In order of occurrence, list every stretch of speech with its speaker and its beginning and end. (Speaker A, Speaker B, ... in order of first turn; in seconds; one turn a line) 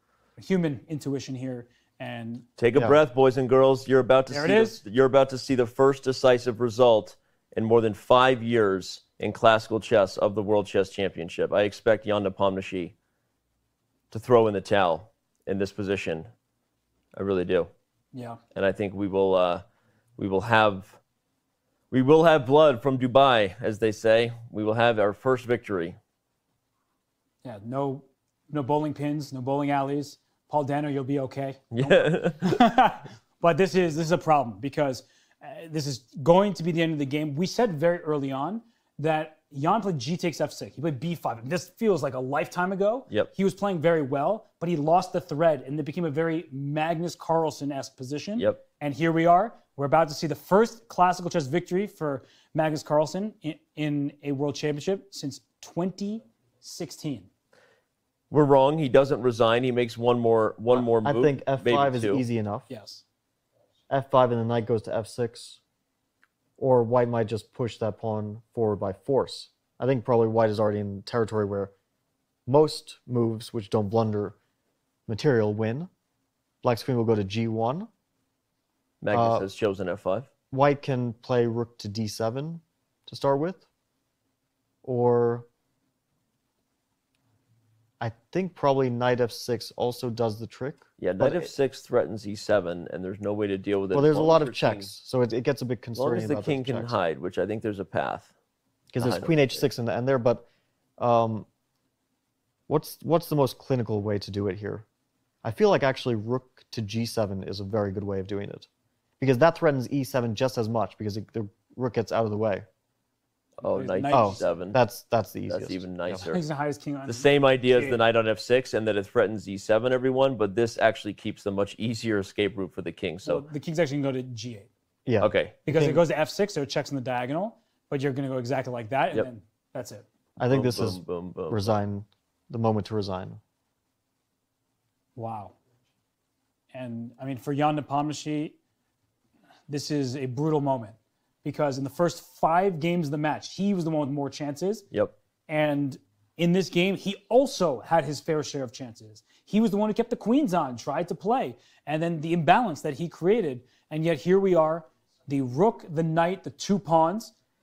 Speaker A: 0.4-2.5
Speaker B: 2.6-12.9
Speaker A: 4.3-4.8
Speaker B: 14.1-16.3
Speaker B: 17.1-17.7
Speaker A: 18.1-18.4
Speaker B: 18.5-19.6
Speaker B: 20.2-21.0
Speaker B: 21.9-26.0
Speaker A: 27.4-57.3
Speaker B: 31.7-32.6
Speaker B: 48.4-48.6
Speaker B: 58.3-62.2
Speaker C: 61.0-62.7
Speaker A: 62.7-63.0
Speaker C: 63.9-65.6
Speaker C: 66.6-71.7
Speaker C: 72.5-74.3
Speaker C: 75.1-75.9
Speaker C: 76.6-77.9
Speaker B: 79.0-80.3
Speaker C: 79.1-79.5
Speaker C: 80.5-83.7
Speaker C: 84.8-85.5
Speaker C: 88.0-91.5
Speaker B: 91.0-94.9
Speaker C: 93.9-97.0
Speaker B: 95.9-98.3
Speaker C: 98.9-100.5
Speaker B: 99.0-99.6
Speaker C: 101.0-101.5
Speaker C: 102.7-104.8
Speaker C: 105.4-108.7
Speaker C: 109.2-112.7
Speaker B: 113.6-114.8
Speaker A: 113.6-114.6
Speaker C: 114.1-116.2
Speaker B: 115.5-116.4
Speaker A: 116.2-118.0
Speaker B: 117.1-123.4
Speaker A: 123.2-124.7
Speaker C: 125.0-126.0
Speaker B: 125.2-125.6
Speaker A: 125.6-130.1
Speaker C: 130.4-133.4
Speaker B: 130.5-131.8
Speaker A: 135.2-135.5
Speaker A: 136.7-138.6
Speaker A: 139.7-144.9
Speaker A: 145.5-157.3